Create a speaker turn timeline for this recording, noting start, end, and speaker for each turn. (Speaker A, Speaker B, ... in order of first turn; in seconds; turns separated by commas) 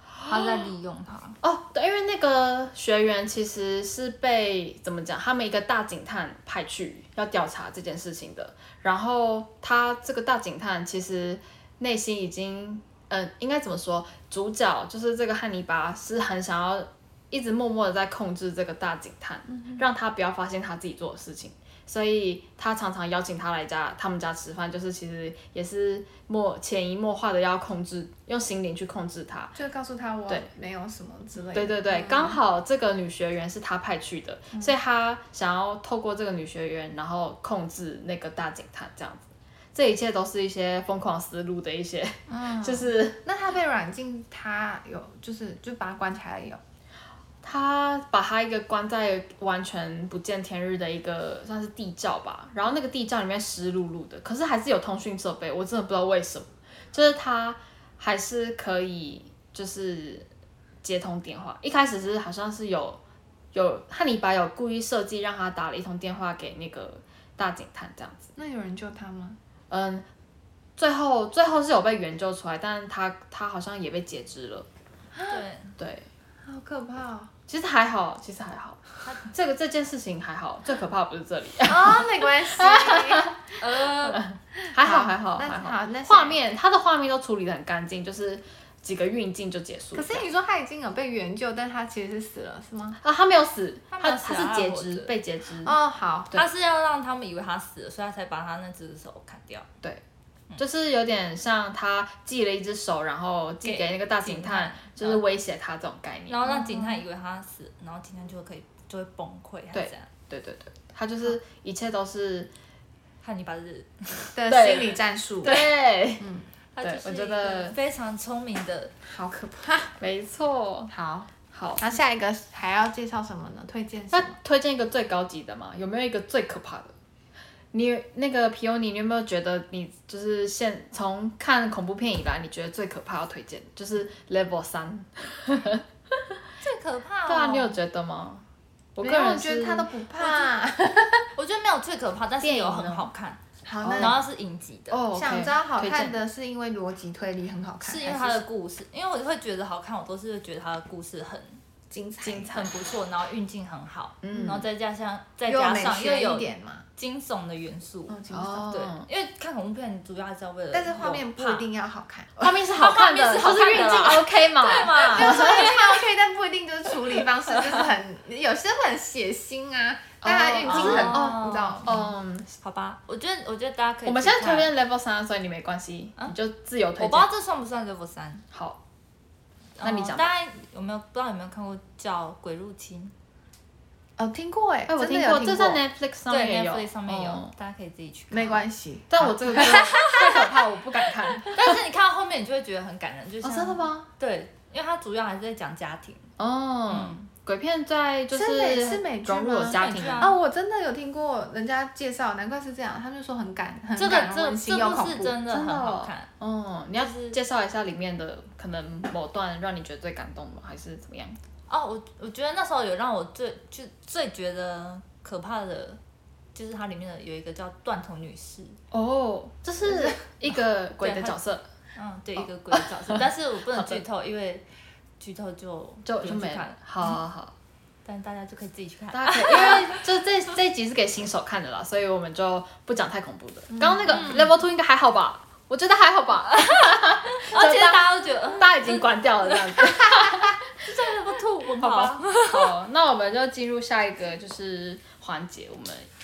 Speaker A: 0.2-0.7, Speaker B: 0.3-1.4, Speaker A: 1.4-29.6, Speaker C: 19.5-19.8, Speaker C: 29.6-32.4, Speaker A: 31.5-43.2, Speaker C: 42.3-46.6, Speaker A: 47.4-60.3, Speaker A: 60.8-63.0, Speaker A: 63.5-68.3, Speaker C: 68.4-69.4, Speaker A: 69.7-70.1, Speaker A: 70.8-74.7, Speaker C: 75.2-75.4, Speaker B: 75.3-75.8, Speaker A: 75.8-76.1, Speaker C: 76.4-77.3, Speaker A: 77.5-90.3, Speaker C: 81.6-83.3, Speaker B: 83.6-84.2, Speaker C: 84.7-86.4, Speaker C: 89.9-93.0, Speaker A: 93.0-95.8, Speaker B: 93.9-95.1, Speaker C: 95.6-96.4, Speaker B: 96.3-99.7, Speaker A: 100.6-106.4, Speaker B: 103.6-105.2, Speaker B: 106.3-110.1, Speaker C: 106.5-107.0, Speaker A: 109.7-112.5, Speaker B: 113.2-114.3, Speaker C: 114.3-116.5, Speaker A: 114.5-116.3, Speaker B: 116.8-118.9, Speaker A: 116.8-117.8, Speaker C: 119.1-120.0, Speaker A: 120.0-120.9, Speaker C: 120.9-124.4, Speaker A: 121.5-121.8, Speaker A: 124.1-126.9, Speaker A: 127.7-135.8, Speaker B: 136.6-137.8, Speaker A: 137.3-138.4, Speaker A: 139.0-140.5, Speaker C: 139.0-141.3, Speaker B: 141.4-143.4, Speaker A: 142.4-143.1, Speaker C: 143.7-144.2, Speaker A: 143.8-144.2, Speaker B: 144.0-145.0, Speaker A: 144.9-146.2, Speaker C: 145.1-148.4, Speaker B: 147.8-151.6, Speaker C: 151.9-152.7, Speaker A: 152.2-152.7, Speaker B: 152.5-161.7, Speaker A: 154.2-154.7, Speaker C: 155.5-156.9, Speaker C: 158.1-158.7, Speaker A: 158.3-159.1, Speaker C: 160.7-162.6, Speaker A: 162.4-165.9, Speaker B: 162.7-165.8, Speaker C: 165.1-171.9, Speaker B: 167.5-167.8, Speaker A: 170.2-172.5, Speaker B: 170.6-174.7, Speaker A: 174.1-177.3, Speaker B: 177.0-178.4, Speaker A: 178.5-178.8, Speaker B: 179.8-183.1, Speaker A: 179.8-180.3, Speaker C: 184.2-185.8, Speaker A: 184.9-187.5, Speaker B: 186.3-188.7, Speaker C: 188.3-190.5, Speaker A: 189.1-191.8, Speaker B: 189.5-190.4, Speaker B: 191.4-196.3, Speaker A: 193.4-194.1, Speaker A: 196.4-200.3, Speaker B: 196.9-197.2, Speaker C: 198.3-205.4, Speaker B: 199.7-200.4, Speaker B: 204.0-206.3, Speaker A: 205.5-211.4, Speaker B: 207.0-207.4, Speaker B: 211.7-216.0, Speaker B: 216.6-218.8, Speaker A: 218.9-221.7, Speaker C: 219.9-220.2, Speaker B: 221.0-221.4, Speaker B: 221.9-224.7, Speaker A: 222.4-224.0, Speaker B: 225.2-227.1, Speaker A: 226.1-227.5, Speaker B: 228.1-230.0, Speaker A: 229.1-240.6, Speaker C: 233.7-234.2, Speaker B: 234.1-234.6, Speaker B: 236.5-240.3, Speaker B: 240.8-242.7, Speaker A: 241.8-246.1